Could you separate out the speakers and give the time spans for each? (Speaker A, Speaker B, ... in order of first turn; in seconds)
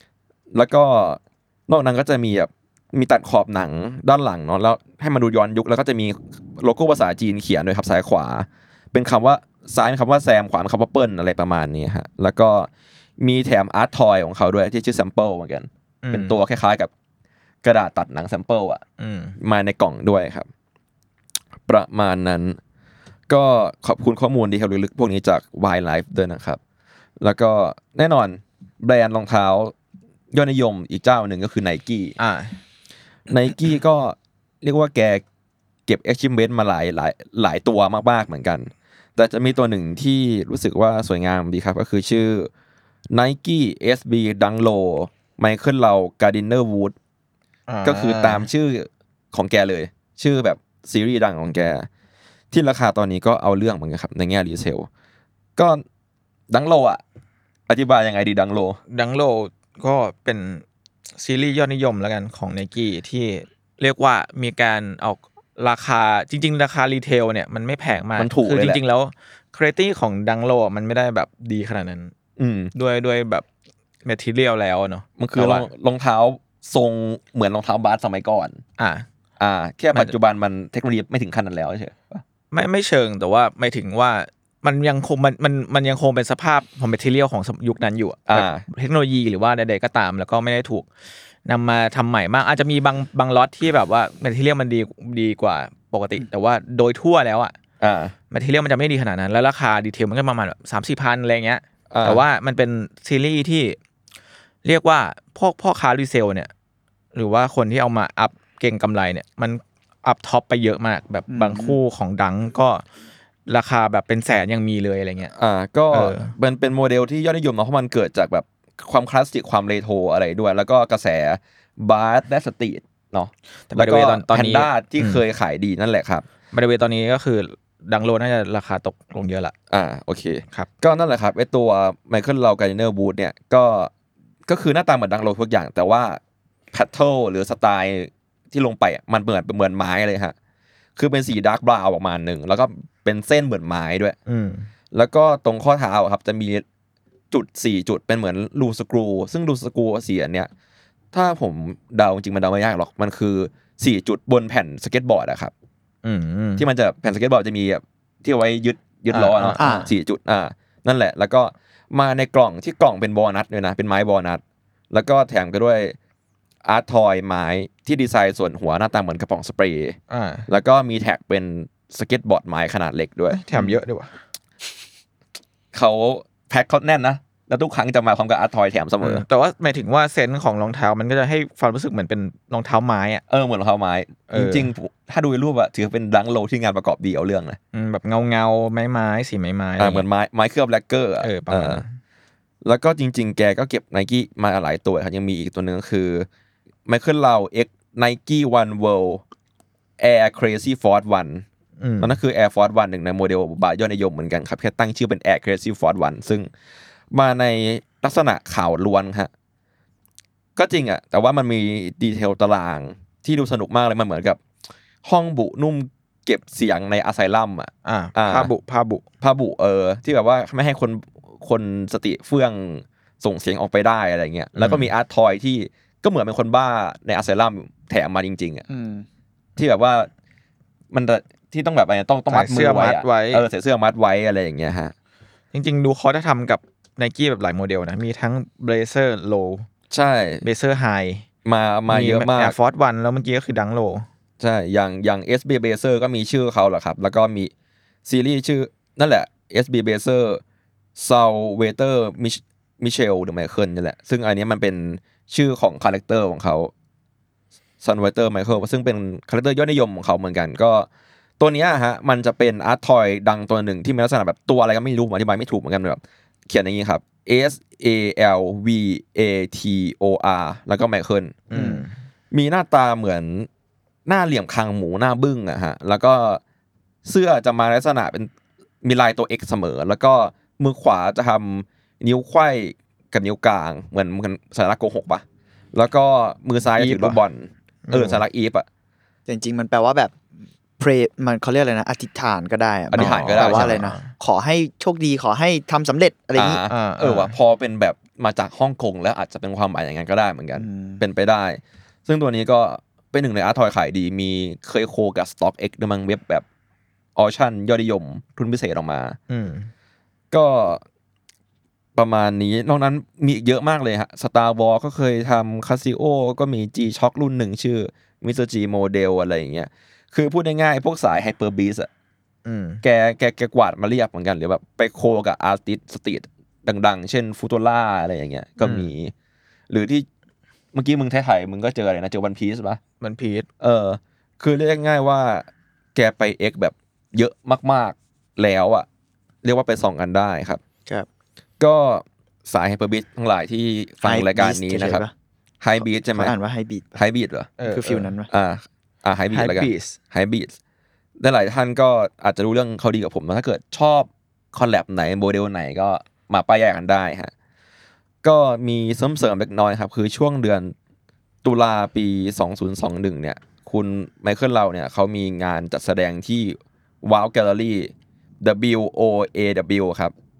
Speaker A: 0.5-16.9, 17.6-18.8, 19.4-20.5, 21.7-22.6, 23.3-26.6, 27.2-29.7, 30.3-32.2, 33.3-35.2, 35.9-42.5, 43.1-46.9, 47.8-51.9, 52.5-54.9, 55.6-55.8, 56.5-57.0, 57.7-58.8, 68.2-68.8, 72.4-72.7, 75.2-78.6, 79.4-82.2, 88.3-88.6, 97.8-98.1, 101.9-102.2, 115.3-126.2, 129.7-133.9, 134.4-136.2, 136.7-140.3, 140.9-144.2, 144.9-146.6, 147.3-150.5, 151.1-155.5, 156.6-165.9, 166.6-170.0, 170.5-173.7, 175.7-179.2, 183.3-187.6, 189.8-191.8, 192.6-196.3, 196.9-199.2, 200.0-201.4, 202.0-206.5, 207.1-209.3, 210.6-214.4, 215.0-218.5, 219.2-228.7, 229.6-230.1, 230.9-234.9, 239.9-240.4, 241.4-242.6, 244.4-247.5, 248.1-250.4, 250.9-256.7, 257.8-260.9, 261.4-271.4, 272.3-273.5, 274.1-276.4, 277.1-278.3, 278.8-288.6, 292.9-293.8, 296.4-306.4, 307.1-309.2, 310.3-310.8, 311.9-321.9, 322.8-329.1, 329.7-330.1, 330.7-332.8, 333.6-338.9, 339.4-340.6, 341.6-345.0, 345.6-346.4, 346.9-347.5, 348.3-350.6, 351.2-357.3, 358.2-360.7, 361.4-370.1
Speaker B: 16.0-16.4, 19.0-19.4, 32.2-32.6, 47.7-48.5, 58.9-60.6, 61.2-72.1, 72.7-73.4, 74.0-75.7, 78.8-79.1, 82.5-90.9, 91.5-97.5, 98.3-103.8, 104.6-106.5, 107.1-112.8, 113.5-115.3, 115.9-116.3, 123.7-125.2, 126.5-129.5, 144.3-144.7, 156.0-156.7, 159.1-159.8, 170.1-170.5, 173.3-174.1, 179.0-183.2, 184.3-184.7, 187.7-190.1, 191.2-191.9, 201.8-202.2, 217.8-219.0, 224.6-224.9, 232.3-233.4, 235.5-239.7, 240.4-241.2, 241.9-244.1, 271.5-271.9, 286.8-287.2, 287.9-288.2, 293.0-294.1, 296.7-297.3, 309.3-309.7, 322.4-322.8, 328.6-328.9, 333.0-333.5, 347.6-348.1, 349.3-350.0
Speaker C: 111.3-111.8, 159.6-159.9, 228.7-229.1, 271.5-271.8, 289.3-290.1, 290.8-296.6, 300.6-301.0, 344.0-345.1, 346.1-347.0, 347.7-348.3